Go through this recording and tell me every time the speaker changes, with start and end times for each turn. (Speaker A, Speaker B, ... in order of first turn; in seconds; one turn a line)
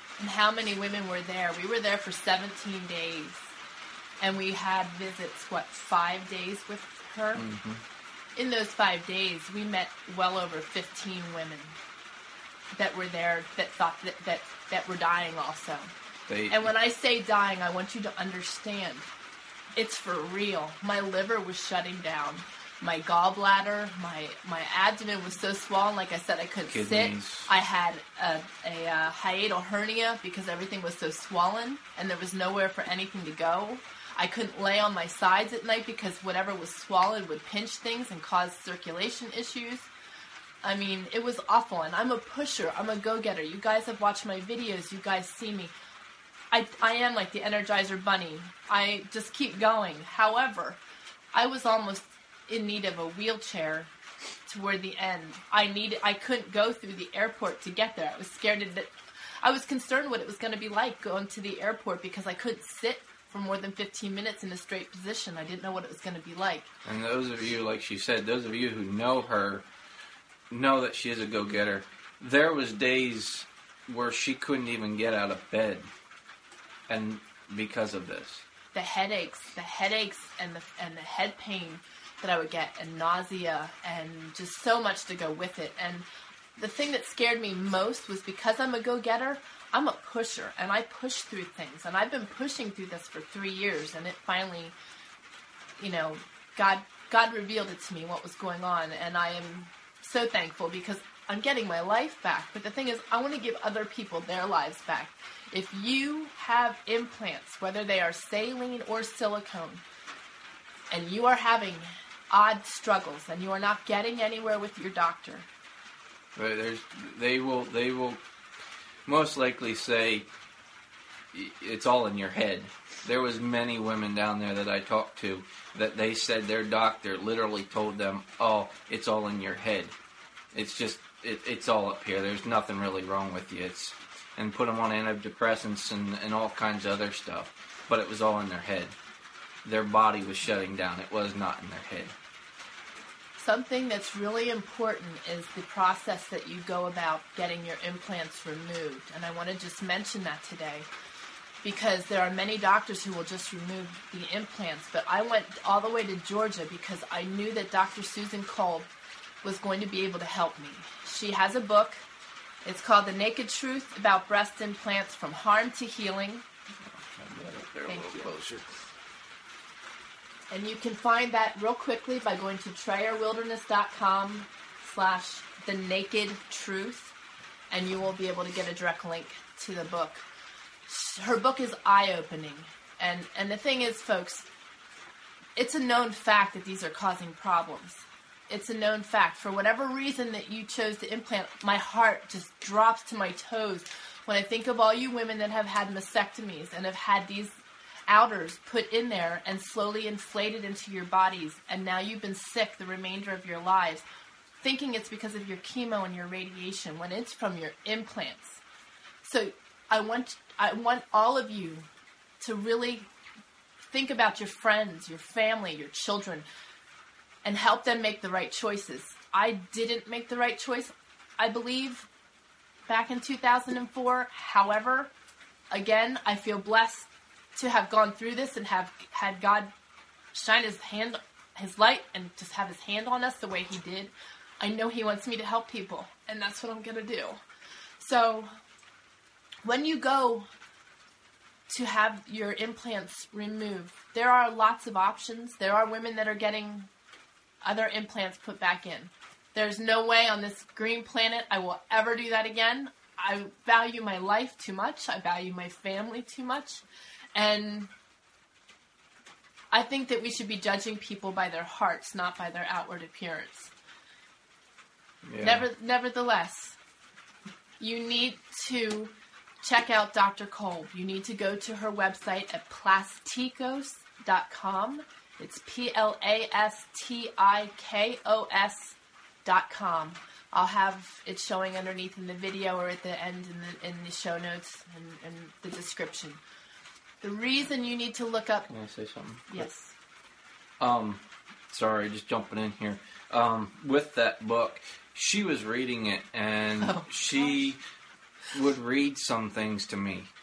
Speaker A: 0.2-3.5
Speaker A: 4.2-7.4
Speaker B: 7.3-7.8
Speaker A: 8.3-11.8
Speaker A: 12.7-15.9
Speaker B: 16.3-16.7
Speaker A: 16.5-19.1
Speaker A: 19.7-39.9
Speaker B: 26.7-27.5
Speaker A: 40.6-45.7
Speaker A: 46.5-50.8
Speaker A: 51.3-53.9
Speaker A: 54.5-66.7
Speaker B: 66.8-69.7
Speaker B: 70.5-75.9
Speaker B: 76.9-78.4
Speaker A: 78.7-94.7
Speaker A: 95.8-109.8
Speaker A: 110.9-115.5
Speaker B: 116.3-118.2
Speaker B: 119.0-120.3
Speaker B: 121.3-129.9
Speaker B: 130.5-138.9
Speaker B: 139.6-142.1
Speaker A: 143.4-150.9
Speaker A: 151.6-158.9
Speaker A: 159.4-162.0
Speaker A: 162.6-166.4
Speaker B: 166.8-168.7
Speaker A: 167.9-168.3
Speaker A: 170.5-177.1
Speaker A: 177.7-180.2
Speaker A: 180.9-184.5
Speaker A: 185.6-197.6
Speaker A: 198.1-204.0
Speaker A: 204.6-208.6
Speaker A: 209.2-211.9
Speaker A: 212.4-213.1
Speaker A: 213.9-216.4
Speaker A: 217.4-222.1
Speaker A: 222.9-225.1
Speaker A: 225.7-229.7
Speaker A: 230.3-237.4
Speaker A: 238.0-238.5
Speaker A: 239.6-240.5
Speaker A: 241.7-246.9
Speaker A: 247.6-256.8
Speaker A: 257.4-257.9
Speaker A: 259.7-263.7
Speaker B: 265.2-265.7
Speaker A: 265.4-266.8
Speaker A: 267.8-286.4
Speaker A: 287.2-288.7
Speaker B: 288.7-289.7
Speaker A: 289.5-289.9
Speaker B: 290.8-297.8
Speaker A: 296.8-297.1
Speaker B: 298.5-300.3